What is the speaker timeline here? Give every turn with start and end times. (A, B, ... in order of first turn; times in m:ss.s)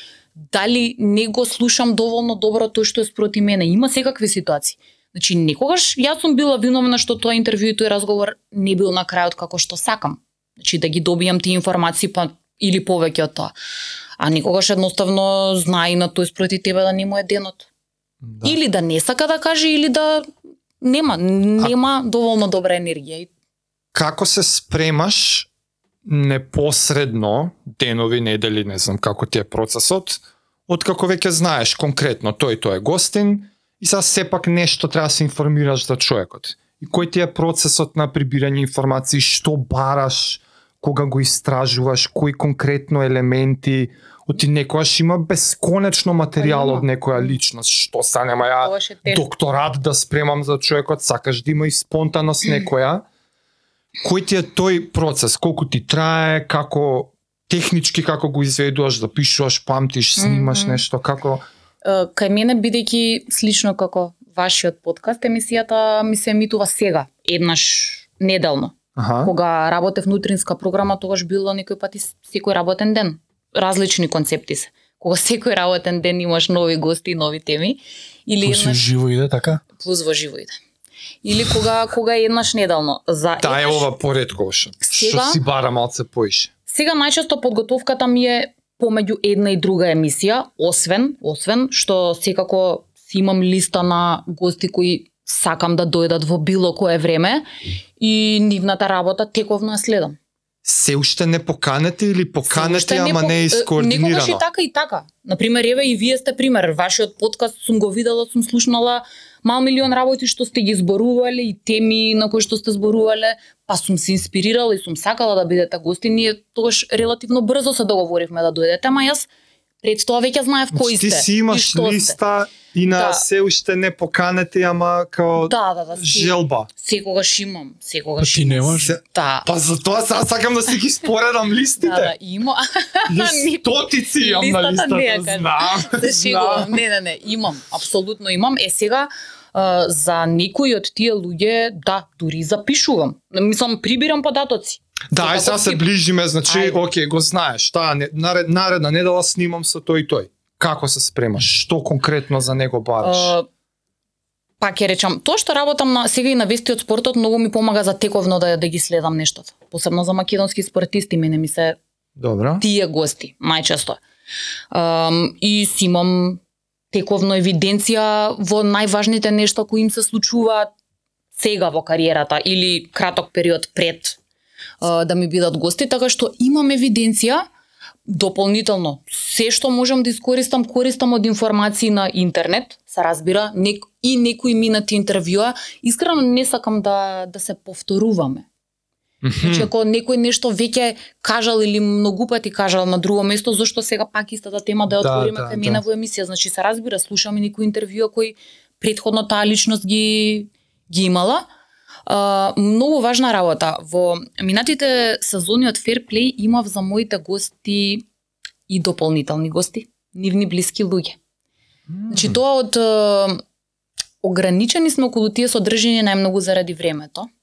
0:00.5-0:13.5 A
0:14.2-0:17.7 A
0:18.2-0:18.6 B
0:18.4-0:20.3 A
0:20.8-0:23.3 A
0:23.9-0:25.5 B
0:26.1-0:53.0 B
0:46.4-0:47.4 A
0:48.6-0:49.3 A
0:54.0-1:01.4 B
1:00.2-1:00.8 A
1:01.8-1:18.9 A
1:09.0-1:09.3 B
1:18.4-1:19.6 C
1:19.8-1:20.6 A
1:21.2-1:23.9 A
1:23.4-1:26.5 B
1:24.9-1:25.4 A
1:26.7-1:37.4 A
1:38.0-1:40.2 A
1:40.6-1:44.4 B
1:42.5-1:59.3 A
1:59.8-2:02.2 A
2:00.7-2:06.7 B
2:02.9-2:03.2 A
2:05.4-2:09.5 A
2:08.2-2:08.9 C
2:08.8-2:12.1 B
2:11.8-2:25.9 A
2:13.1-2:16.8 B
2:25.1-2:33.3 B
2:26.5-2:26.8 A
2:33.0-2:33.5 A
2:34.6-2:41.8 A
2:42.2-2:42.6 B
2:42.6-2:44.0 A
2:44.7-2:46.4 A
2:46.9-2:50.7 A
2:51.4-2:54.2 A
2:54.8-2:57.4 A
2:58.1-3:08.5 A
3:09.2-3:09.7 B
3:09.4-3:21.4 A
3:15.0-3:15.8 B
3:22.1-3:28.0 A
3:28.7-3:31.2 A
3:31.9-3:32.4 B
3:32.1-3:33.4 A
3:34.2-3:37.3 A